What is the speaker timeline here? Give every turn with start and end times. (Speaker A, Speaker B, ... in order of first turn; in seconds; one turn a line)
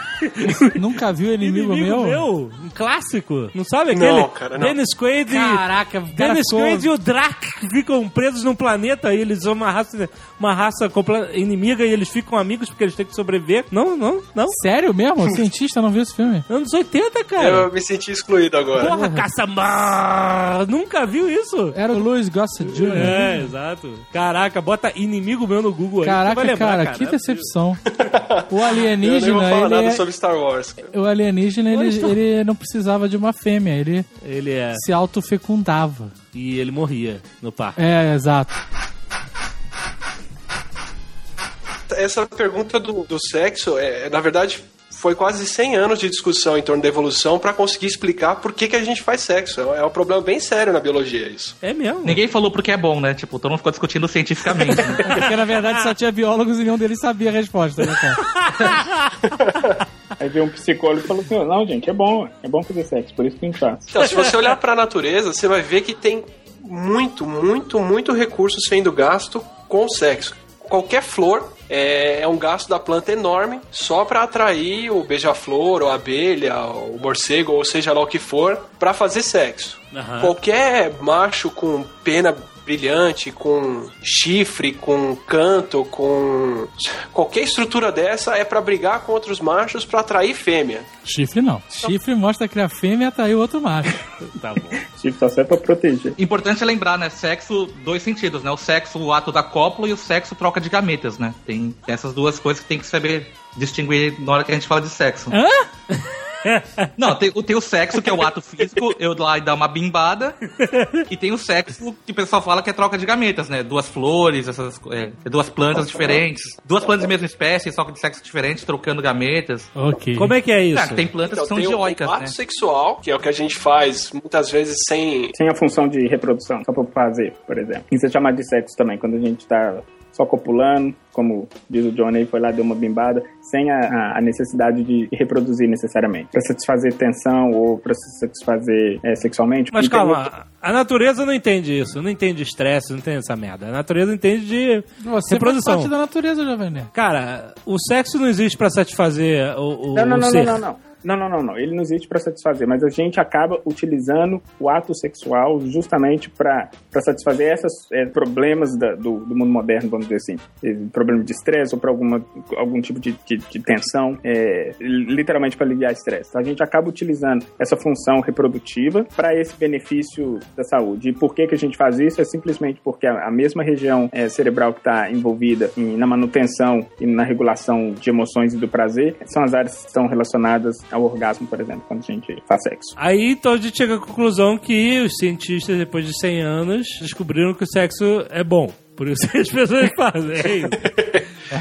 Speaker A: 0.2-0.7
Speaker B: 0.7-2.2
Speaker A: 1.4-14.6
Speaker C: 3.9-4.8
Speaker B: 5.3-6.9
Speaker B: 14.5-16.4
Speaker A: 16.5-17.7
Speaker C: 17.4-18.9
Speaker A: 18.8-22.1
Speaker B: 18.8-19.2
Speaker B: 21.7-23.5
Speaker A: 22.6-27.4
Speaker B: 26.0-27.8
Speaker C: 27.9-30.9
Speaker B: 28.5-30.0
Speaker B: 30.9-34.0
Speaker A: 31.7-32.1
Speaker A: 34.2-34.8
Speaker B: 34.7-36.1
Speaker A: 36.3-37.8
Speaker B: 37.8-38.6
Speaker C: 41.9-51.6
Speaker A: 51.6-52.2
Speaker D: 52.0-55.1
Speaker B: 55.0-58.2
Speaker A: 58.2-59.1
Speaker C: 59.4-59.8
Speaker E: 60.2-64.0
Speaker C: 63.9-90.9
Speaker A: 79.9-80.3
Speaker B: 91.0-94.0
Speaker A: 94.2-94.8
Speaker E: 94.9-96.2
Speaker D: 96.2-105.4
Speaker B: 105.3-105.7
Speaker A: 106.4-106.9
Speaker D: 107.0-110.4
Speaker A: 110.6-111.0
Speaker D: 111.1-119.7
Speaker B: 119.8-120.3
Speaker A: 120.2-121.1
Speaker D: 120.7-122.3
Speaker C: 121.2-125.3
Speaker E: 125.3-140.3
Speaker A: 139.7-145.9
Speaker B: 145.0-146.9
Speaker A: 146.9-150.6
Speaker E: 149.9-182.9
Speaker A: 183.0-190.9